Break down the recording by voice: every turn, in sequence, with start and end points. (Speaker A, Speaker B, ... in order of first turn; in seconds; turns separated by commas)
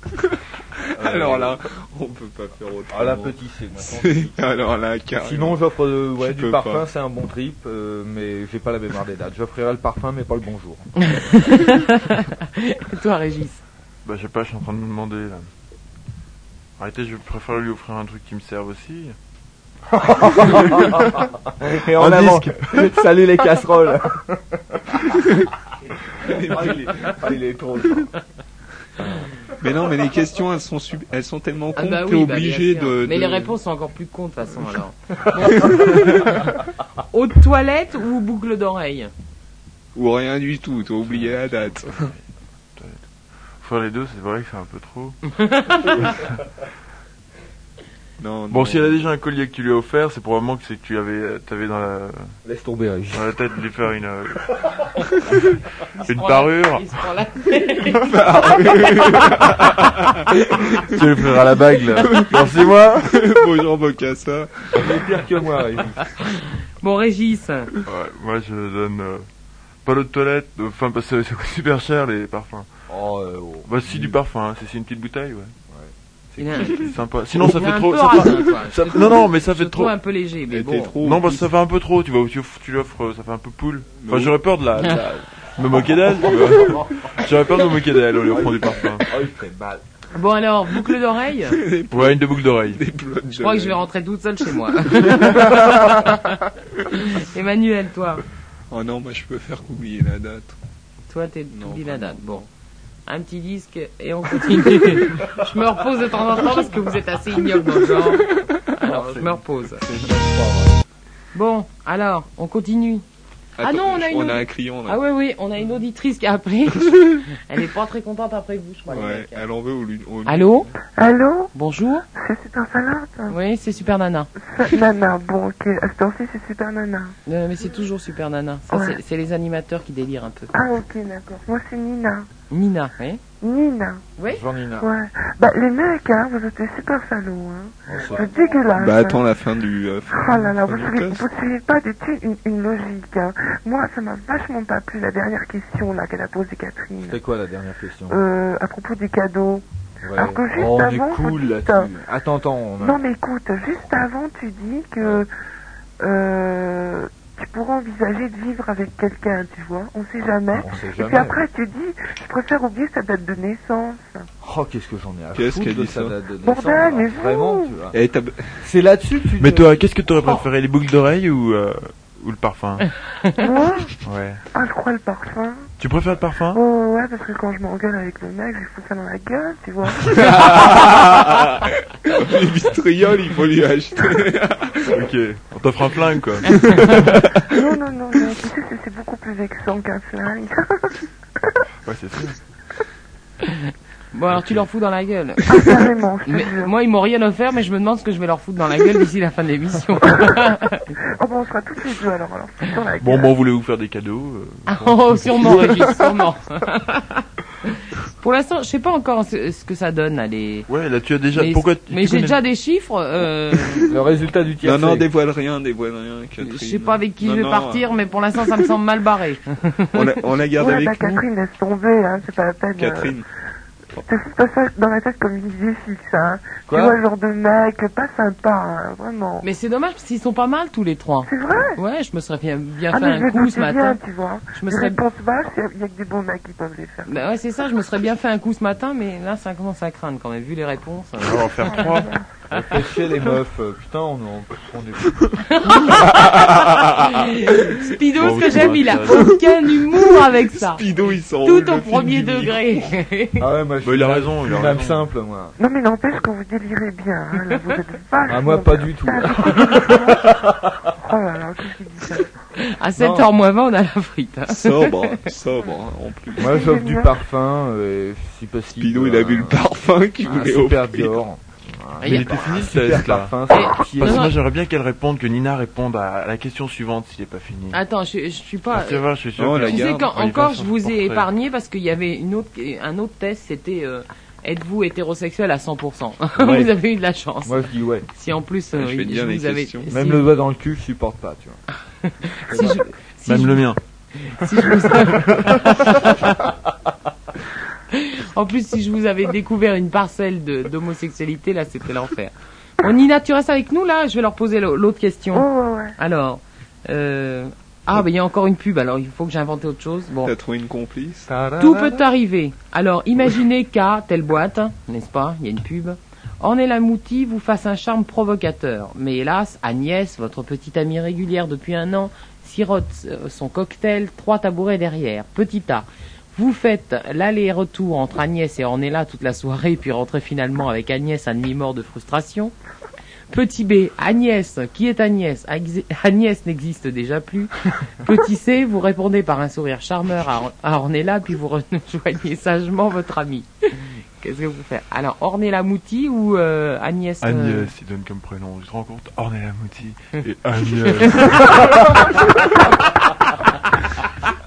Speaker A: 0.2-5.6, Speaker B: 0.9-1.6, Speaker B: 2.9-4.3, Speaker B: 5.2-10.9, Speaker A: 6.2-6.8, Speaker C: 11.0-13.6, Speaker D: 14.0-15.5, Speaker D: 16.8-19.1, Speaker B: 19.9-25.1, Speaker D: 20.5-21.2, Speaker D: 21.8-22.9, Speaker A: 26.2-27.2, Speaker B: 26.2-28.1, Speaker A: 29.6-33.6, Speaker C: 31.7-36.5, Speaker A: 35.5-36.1, Speaker C: 37.1-39.1, Speaker A: 39.9-42.1, Speaker D: 41.1-42.2, Speaker D: 42.8-43.0, Speaker D: 43.6-46.4, Speaker C: 45.4-46.1, Speaker A: 48.2-49.1, Speaker D: 48.5-52.3, Speaker B: 52.4-53.3, Speaker D: 53.1-54.6, Speaker C: 55.9-59.3, Speaker D: 56.0-57.0, Speaker A: 57.9-60.3, Speaker D: 60.7-63.3, Speaker A: 61.9-65.0, Speaker B: 64.7-66.1, Speaker C: 66.4-67.7, Speaker D: 67.8-69.2, Speaker D: 69.8-72.7, Speaker B: 72.9-74.2, Speaker D: 73.6-75.5, Speaker B: 75.7-76.9, Speaker C: 76.4-76.8, Speaker D: 76.7-79.9, Speaker C: 77.3-81.0, Speaker A: 80.5-81.5, Speaker D: 81.0-89.1, Speaker A: 84.0-84.3, Speaker B: 88.3-89.8, Speaker C: 90.1-91.6, Speaker A: 91.5-93.8, Speaker D: 91.9-92.8, Speaker C: 93.3-98.2, Speaker A: 94.9-95.5, Speaker A: 98.7-100.5, Speaker C: 101.1-102.4, Speaker A: 101.5-102.4, Speaker C: 103.0-109.8, Speaker A: 108.0-108.6, Speaker B: 108.8-110.7, Speaker A: 109.9-110.1, Speaker C: 111.3-113.0, Speaker A: 113.6-115.0, Speaker C: 113.6-119.4, Speaker A: 118.9-121.0, Speaker C: 120.2-120.7, Speaker E: 121.0-121.5, Speaker C: 121.5-122.0, Speaker E: 122.1-123.4, Speaker C: 123.3-124.3, Speaker E: 124.4-127.1, Speaker C: 127.2-130.5, Speaker E: 128.7-129.0, Speaker E: 130.5-132.3, Speaker C: 132.5-133.2, Speaker E: 133.4-134.0, Speaker C: 134.2-134.4, Speaker B: 134.3-134.9, Speaker E: 134.8-139.2, Speaker B: 137.9-138.3, Speaker A: 138.7-141.2, Speaker E: 140.1-147.2, Speaker B: 147.0-148.2, Speaker E: 148.1-149.6, Speaker B: 150.0-153.0, Speaker E: 150.2-151.9, Speaker E: 152.8-155.3, Speaker E: 156.0-164.3, Speaker B: 160.5-161.4, Speaker B: 164.4-168.0, Speaker A: 165.3-166.2, Speaker E: 166.4-167.8, Speaker A: 167.9-168.6, Speaker B: 168.6-169.9, Speaker D: 169.4-172.9, Speaker E: 173.4-174.0, Speaker D: 174.0-174.4, Speaker E: 174.5-175.7, Speaker D: 175.8-176.6, Speaker E: 176.5-180.7, Speaker A: 180.0-184.9, Speaker D: 184.9-187.1, Speaker A: 186.4-187.6, Speaker C: 186.5-186.8, Speaker E: 187.4-191.1, Speaker D: 191.8-192.4, Speaker C: 193.4-200.9, Speaker D: 194.3-194.7, Speaker E: 195.5-196.7, Speaker E: 201.1-203.3, Speaker D: 203.0-205.8, Speaker C: 204.7-210.7, Speaker D: 210.7-212.4, Speaker C: 211.3-213.9, Speaker B: 213.9-215.1, Speaker A: 214.6-217.9, Speaker C: 216.4-220.2, Speaker A: 218.4-218.7, Speaker A: 219.9-221.2, Speaker E: 220.6-223.2, Speaker A: 222.8-223.3, Speaker E: 224.0-229.4, Speaker B: 226.7-227.0, Speaker C: 229.4-234.0, Speaker E: 231.2-231.8, Speaker E: 232.9-237.2, Speaker C: 234.5-235.0, Speaker C: 237.1-242.9, Speaker D: 241.2-242.1, Speaker E: 241.6-242.2, Speaker B: 242.5-245.4, Speaker C: 245.4-253.5, Speaker A: 245.9-247.2, Speaker D: 248.1-249.4, Speaker A: 249.1-252.8, Speaker B: 253.4-255.6, Speaker D: 253.8-255.1, Speaker E: 255.6-260.3, Speaker B: 258.3-260.9, Speaker E: 260.9-262.3, Speaker C: 262.6-265.2, Speaker B: 263.0-263.3, Speaker A: 264.5-266.7, Speaker E: 266.4-267.1, Speaker B: 266.4-269.6, Speaker A: 268.8-271.2, Speaker B: 270.2-274.3, Speaker C: 272.0-272.4, Speaker D: 272.1-277.8, Speaker C: 273.5-274.4, Speaker C: 277.7-279.0, Speaker D: 278.7-281.3, Speaker A: 279.4-280.1, Speaker C: 279.6-290.3, Speaker B: 287.4-288.1, Speaker A: 288.7-289.9, Speaker B: 289.9-291.6, Speaker C: 292.0-296.5, Speaker B: 292.5-292.8, Speaker D: 293.2-293.8, Speaker C: 297.9-310.3, Speaker E: 305.3-305.9, Speaker A: 310.2-311.3, Speaker B: 311.3-312.1, Speaker C: 311.6-332.5, Speaker C: 333.3-347.7, Speaker D: 347.2-352.0, Speaker C: 351.0-351.9